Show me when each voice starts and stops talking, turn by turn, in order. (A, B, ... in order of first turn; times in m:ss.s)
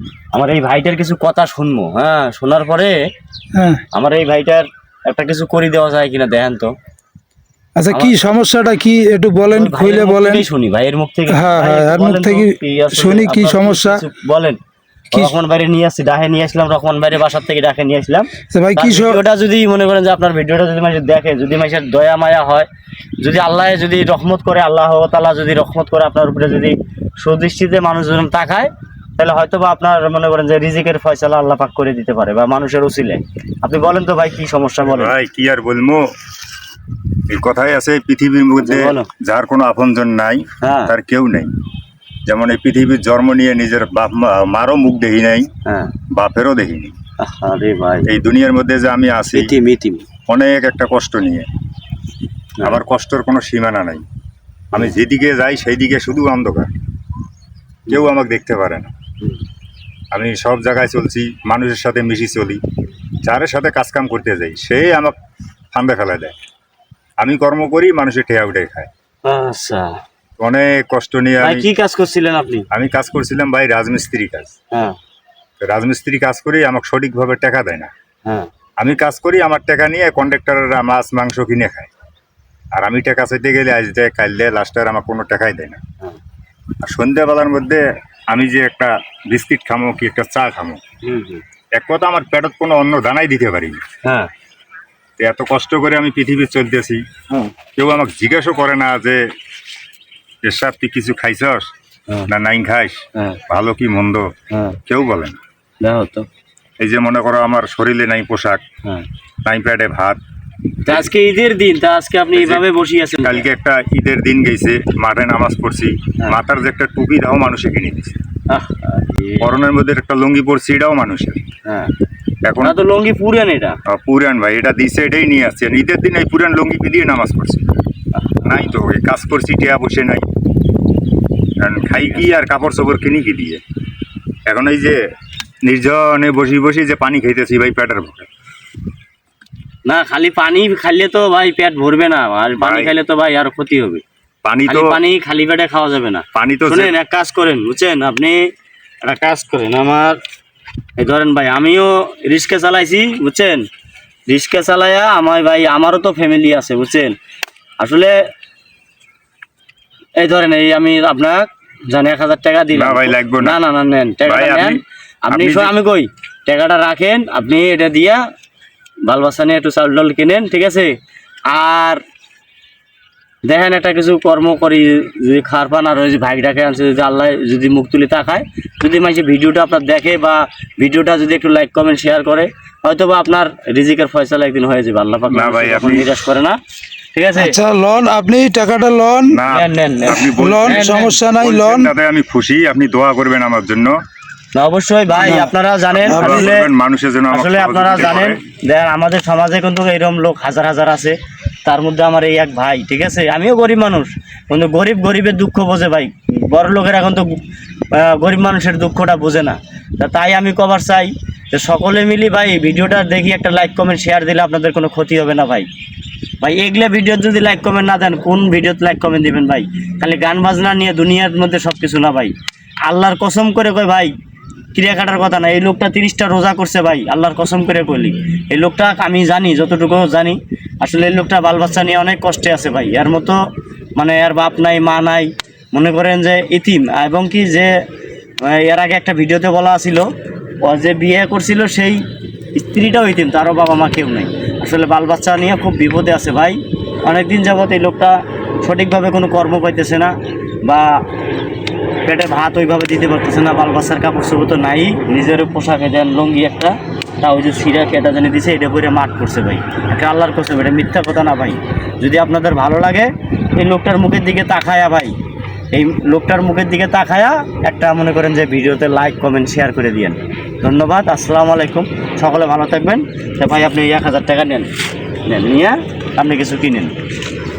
0:00.3-0:02.9 A
0:03.5-0:03.8 B
0:03.9-0:06.7 A
0:07.8-0:10.4 B
0:07.9-0:08.2 A
0:09.4-0:14.6 A
0:11.3-0:14.0 B
0:15.1-0:22.7 A
0:18.5-0:19.2 B
0:23.2-0:35.1 A
0:34.8-0:36.1 C
0:37.3-0:41.5 C
0:38.6-0:39.1 A
0:40.6-0:40.9 A
0:42.2-0:45.5 C
0:45.6-0:45.9 A
0:46.1-0:46.9 C
0:47.2-0:48.1 A
0:48.0-0:49.5 C
0:49.3-0:50.0 A
0:50.3-0:51.5 C
0:52.6-0:54.0 C
0:54.7-0:56.7 C
0:57.9-0:58.9 C
1:00.1-1:02.6 C
1:03.2-1:05.1 C
1:05.7-1:06.3 C
1:07.2-1:08.9 C
1:09.2-1:10.0 A
1:10.4-1:11.7 C
1:11.4-1:12.7 A
1:12.7-1:14.5 C
1:15.6-1:17.9 C
1:18.8-1:21.9 C
1:22.8-1:25.8 C
1:26.8-1:30.8 C
1:31.0-1:31.4 A
1:31.7-1:33.8 C
1:35.2-1:37.0 C
1:37.8-1:39.2 C
1:40.4-1:41.7 C
1:42.3-1:44.3 C
1:44.5-1:44.8 A
1:44.8-1:45.4 C
1:45.8-1:46.3 A
1:46.8-1:48.6 C
1:49.4-1:50.2 C
1:50.8-1:53.5 A
1:52.3-1:52.7 C
1:53.2-1:58.2 C
1:58.5-1:59.5 A
1:59.4-2:01.4 C
2:01.6-2:01.9 A
2:02.4-2:02.8 C
2:02.6-2:03.8 A
2:03.8-2:07.8 C
2:08.1-2:08.6 A
2:08.4-2:10.2 C
2:11.6-2:13.6 C
2:14.5-2:15.0 C
2:15.6-2:18.3 C
2:19.8-2:24.0 A
2:22.6-2:22.9 C
2:24.4-2:25.0 C
2:24.7-2:28.4 A
2:26.3-2:26.9 C
2:29.0-2:30.2 A
2:31.0-2:33.7 A
2:34.3-2:37.2 A
2:37.8-2:38.1 A
2:40.2-2:48.2 A
2:42.7-2:43.6 C
2:44.2-2:45.7 C
2:49.1-2:50.9 A
2:51.5-2:52.0 A
2:53.4-3:06.6 A
3:05.3-3:06.1 C
3:07.1-3:07.6 A
3:07.4-3:09.4 B
3:09.3-3:14.0 C
3:09.5-3:11.2 A
3:10.3-3:11.9 B
3:14.5-3:16.7 A
3:15.2-3:15.5 B
3:15.9-3:18.4 C
3:16.1-3:16.6 B
3:17.3-3:27.4 A
3:27.9-3:35.7 A
3:36.4-3:42.3 A
3:42.8-3:44.1 A
3:44.7-3:53.4 A
3:54.0-3:57.7 A
3:58.4-4:00.1 A
4:00.6-4:02.0 A
4:02.5-4:10.1 A
4:10.6-4:11.0 A
4:12.0-4:25.1 A
4:25.7-4:34.7 A
4:35.2-4:36.9 A